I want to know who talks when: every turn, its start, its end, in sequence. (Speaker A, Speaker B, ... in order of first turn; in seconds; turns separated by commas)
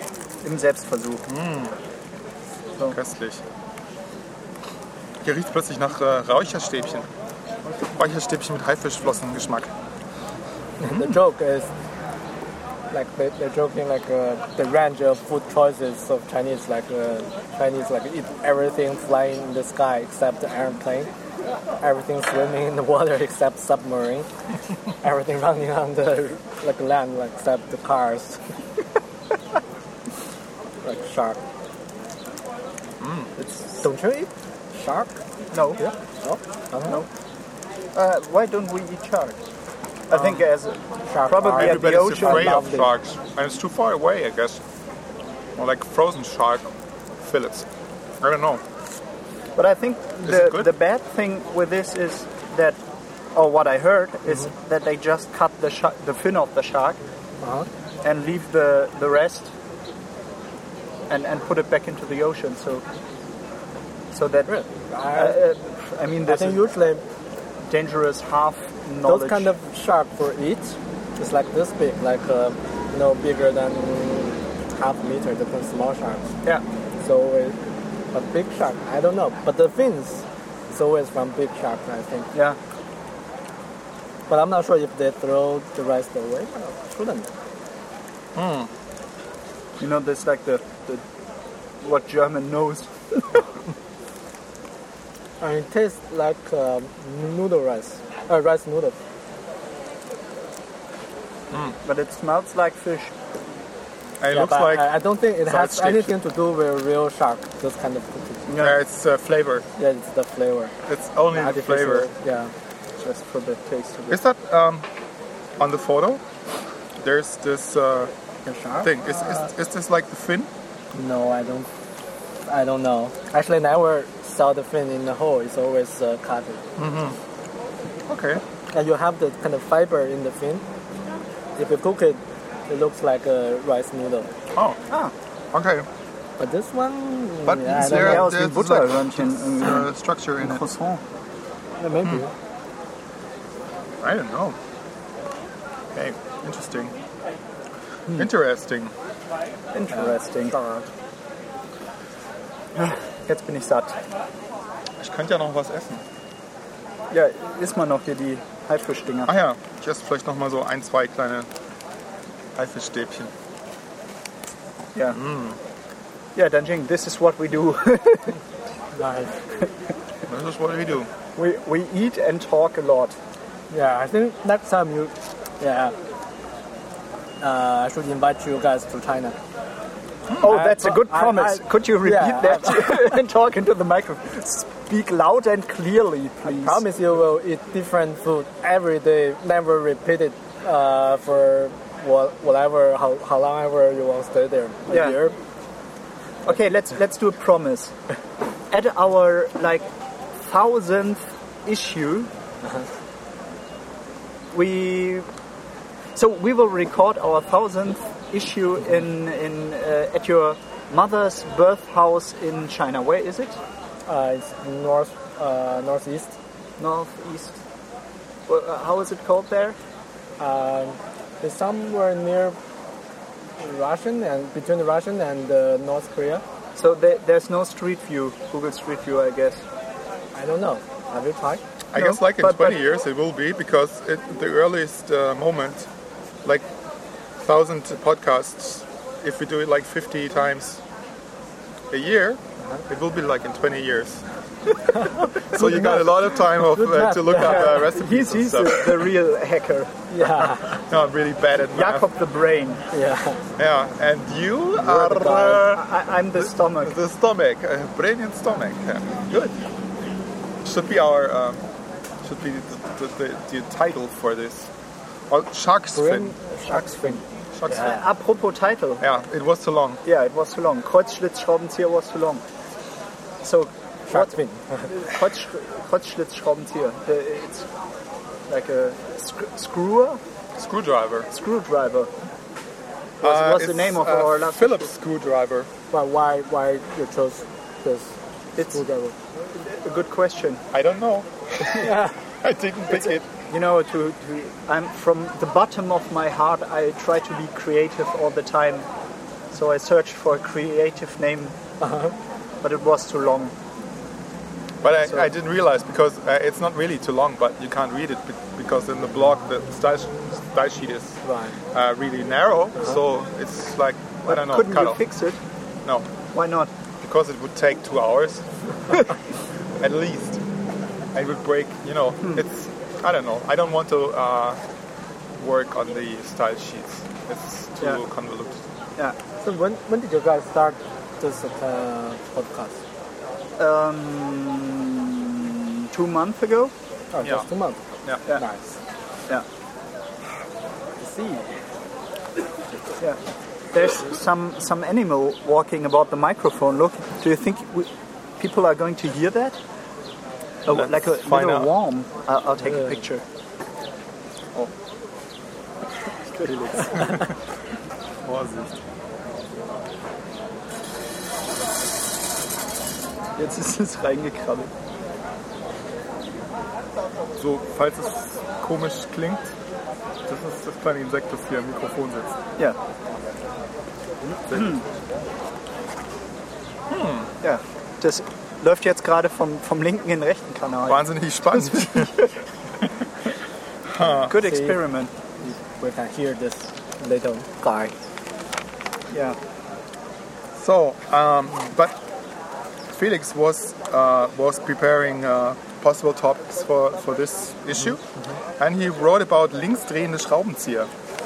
Speaker A: 0.4-1.2, Speaker B: 1.3-1.8, Speaker B: 2.9-3.4, Speaker B: 5.2-7.1, Speaker B: 8.0-9.7, Speaker C: 10.8-11.7, Speaker B: 10.8-11.2, Speaker C: 12.9-21.1, Speaker C: 21.8-24.3, Speaker C: 25.0-28.4, Speaker C: 30.8-31.4, Speaker B: 33.0-33.3, Speaker C: 33.6-35.2, Speaker A: 35.5-35.8, Speaker C: 35.8-37.1, Speaker A: 37.9-39.4, Speaker A: 40.1-42.6, Speaker B: 40.1-40.5, Speaker C: 41.1-42.9, Speaker B: 41.6-44.6, Speaker B: 45.6-46.7, Speaker B: 47.2-47.7, Speaker B: 48.2-48.6, Speaker A: 49.6-52.8, Speaker B: 50.2-50.7, Speaker A: 53.3-57.0, Speaker C: 57.4-57.7, Speaker A: 58.0-59.5, Speaker A: 61.1-62.9, Speaker A: 64.1-64.5, Speaker C: 64.5-65.4, Speaker A: 65.1-66.6, Speaker C: 66.2-67.0, Speaker A: 67.7-69.5, Speaker C: 69.0-76.3, Speaker C: 77.0-77.6, Speaker C: 78.1-82.3, Speaker A: 82.3-82.6, Speaker C: 84.3-87.3, Speaker B: 88.3-88.7, Speaker A: 89.8-91.0, Speaker A: 91.8-93.4, Speaker C: 95.4-99.0, Speaker A: 101.8-103.2, Speaker B: 104.2-104.9, Speaker C: 104.3-108.5, Speaker B: 105.5-106.1, Speaker A: 108.5-108.8, Speaker B: 108.6-109.7, Speaker C: 109.8-110.7, Speaker B: 110.9-112.1, Speaker C: 111.3-112.5, Speaker A: 113.0-114.2, Speaker B: 114.1-114.8, Speaker B: 115.6-116.2, Speaker B: 117.0-118.1, Speaker C: 118.5-119.4, Speaker B: 118.8-120.5, Speaker C: 120.9-121.7, Speaker C: 122.5-126.6, Speaker B: 126.8-127.2, Speaker B: 128.1-128.4, Speaker C: 128.7-130.6, Speaker C: 131.6-134.3, Speaker B: 134.5-134.8, Speaker B: 135.5-135.9, Speaker C: 136.4-138.3, Speaker B: 137.5-140.6, Speaker A: 137.7-139.9, Speaker A: 140.4-141.0, Speaker C: 141.8-142.3, Speaker B: 144.0-144.6, Speaker B: 145.9-147.0, Speaker B: 148.1-148.9, Speaker A: 149.7-150.6, Speaker C: 149.9-150.9, Speaker A: 152.8-154.0, Speaker B: 155.0-156.0, Speaker A: 157.1-159.3, Speaker B: 159.3-161.5, Speaker B: 162.6-163.3, Speaker B: 165.1-165.6, Speaker A: 166.3-168.4, Speaker C: 168.9-169.4, Speaker B: 170.3-171.1, Speaker A: 171.4-173.2, Speaker C: 173.7-175.9, Speaker C: 177.4-179.4, Speaker A: 180.4-186.8, Speaker C: 180.4-183.2, Speaker C: 186.4-195.4, Speaker A: 194.9-195.2, Speaker A: 196.4-197.9, Speaker A: 198.7-202.3, Speaker A: 204.5-205.3, Speaker A: 206.2-213.6, Speaker C: 214.1-216.4, Speaker A: 216.8-217.6, Speaker A: 218.5-219.8, Speaker C: 220.4-222.6, Speaker C: 223.6-226.4, Speaker A: 226.8-229.6, Speaker C: 230.3-231.6, Speaker B: 231.9-235.9, Speaker A: 231.9-232.8, Speaker B: 237.4-240.8, Speaker B: 241.9-244.2, Speaker C: 244.9-247.8, Speaker B: 245.3-249.1, Speaker A: 247.4-249.9, Speaker C: 250.1-250.8, Speaker B: 250.3-252.1, Speaker A: 251.7-252.8, Speaker C: 252.9-253.4, Speaker B: 253.6-255.8, Speaker A: 254.8-256.9, Speaker B: 256.4-259.6, Speaker B: 260.6-261.6, Speaker B: 262.2-264.7, Speaker B: 265.3-266.4, Speaker C: 265.9-267.9, Speaker B: 267.5-268.0, Speaker A: 267.7-269.0, Speaker B: 269.0-270.0, Speaker A: 270.0-272.4, Speaker A: 273.4-277.7, Speaker C: 274.1-274.9, Speaker A: 278.5-280.2, Speaker B: 280.6-281.3, Speaker A: 281.3-282.1, Speaker A: 283.2-284.9, Speaker B: 283.2-285.7, Speaker C: 285.9-289.1, Speaker A: 289.5-290.6, Speaker B: 290.7-293.3, Speaker C: 291.7-292.1, Speaker A: 292.9-298.9, Speaker A: 299.5-301.6, Speaker C: 301.8-302.1, Speaker A: 302.6-303.5, Speaker B: 304.8-311.2, Speaker C: 311.2-311.6, Speaker B: 311.7-315.0, Speaker A: 314.3-315.4, Speaker A: 316.4-316.7, Speaker B: 317.0-319.1, Speaker B: 319.8-320.4, Speaker B: 321.1-324.6, Speaker B: 325.4-328.6, Speaker C: 329.4-332.8, Speaker A: 333.6-336.7, Speaker C: 337.1-337.8, Speaker B: 337.2-337.5, Speaker C: 338.4-338.8, Speaker C: 341.0-341.5, Speaker A: 343.7-349.6, Speaker A: 350.7-353.2, Speaker B: 350.7-351.7, Speaker A: 356.2-357.1, Speaker B: 356.9-357.3, Speaker B: 358.2-358.8, Speaker A: 363.4-364.7, Speaker B: 367.4-369.5, Speaker B: 370.3-372.4, Speaker B: 374.5-374.8, Speaker A: 374.5-374.8, Speaker B: 376.9-377.3, Speaker A: 377.4-382.3, Speaker B: 380.9-382.3, Speaker B: 383.9-384.4, Speaker A: 384.3-385.1, Speaker C: 384.3-384.8, Speaker C: 385.4-387.9, Speaker A: 389.1-389.4, Speaker B: 390.6-392.0, Speaker B: 392.9-398.0, Speaker B: 398.6-400.9